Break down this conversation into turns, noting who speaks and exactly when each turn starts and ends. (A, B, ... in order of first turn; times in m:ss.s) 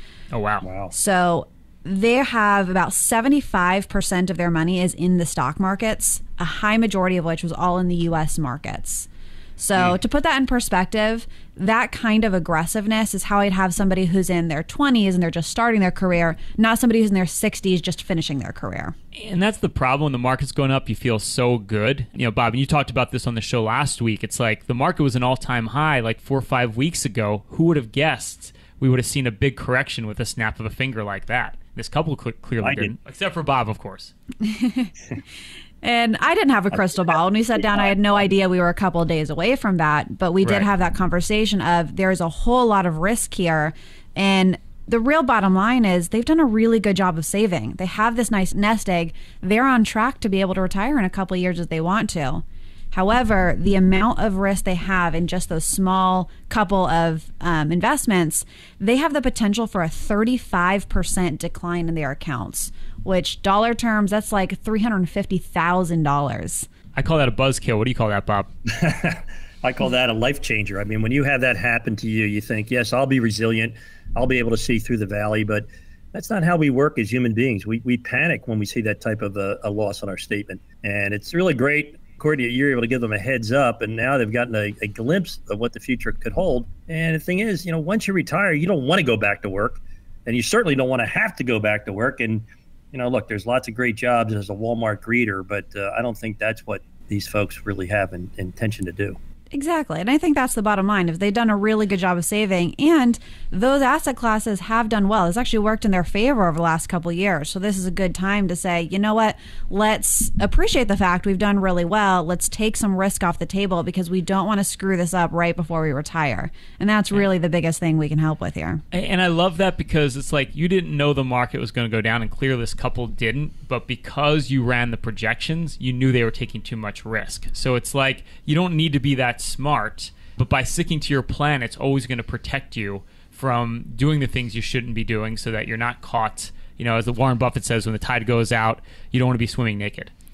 0:00.3-0:00.6 A
0:00.6-0:00.9 B
0:00.9-0:18.9 C
0:19.1-0:34.1 A
0:32.6-0:32.9 B
0:34.4-0:34.9 C
0:35.8-1:06.7 C
0:36.9-0:38.2 B
1:06.9-1:08.5 A
1:08.6-1:39.2 B
1:39.5-1:58.8 C
1:58.9-2:20.1 A